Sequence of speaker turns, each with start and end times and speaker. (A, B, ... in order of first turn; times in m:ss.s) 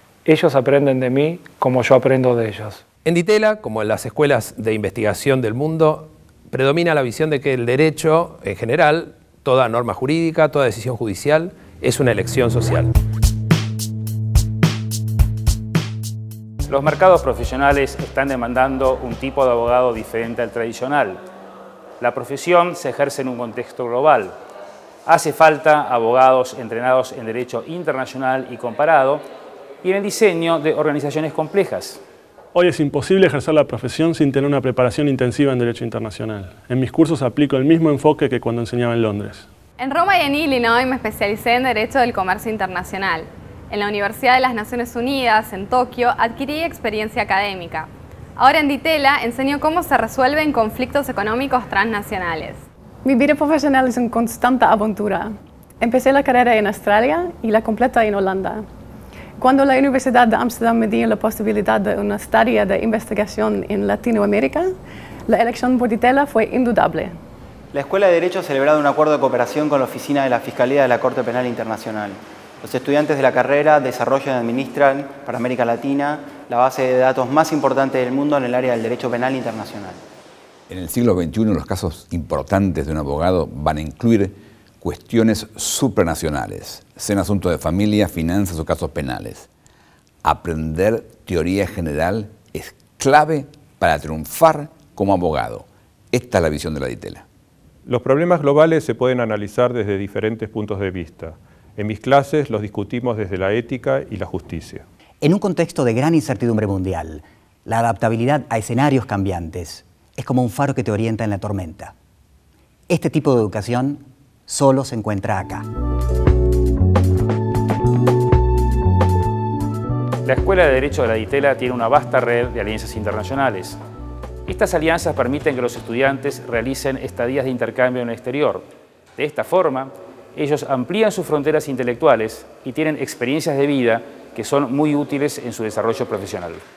0:00.2-0:02.8 A
0:03.0-0:12.9 B
0:16.7-0:21.2 C
0:22.0-0:24.4 C
0:25.0-0:29.2 C
0:29.8-0:32.0 C
0:32.5-0:39.5 D
0:39.8-0:52.6 E
0:53.0-0:58.6 F
0:59.4-1:04.6 F
1:05.3-1:07.2 F
1:07.7-1:20.0 G
1:20.7-1:29.5 H
1:30.2-1:37.2 H
1:37.8-1:44.8 I
1:45.2-1:51.9 J
1:52.9-1:55.6 J
2:00.2-2:03.8 C
2:04.5-2:08.6 C
2:09.2-2:16.6 C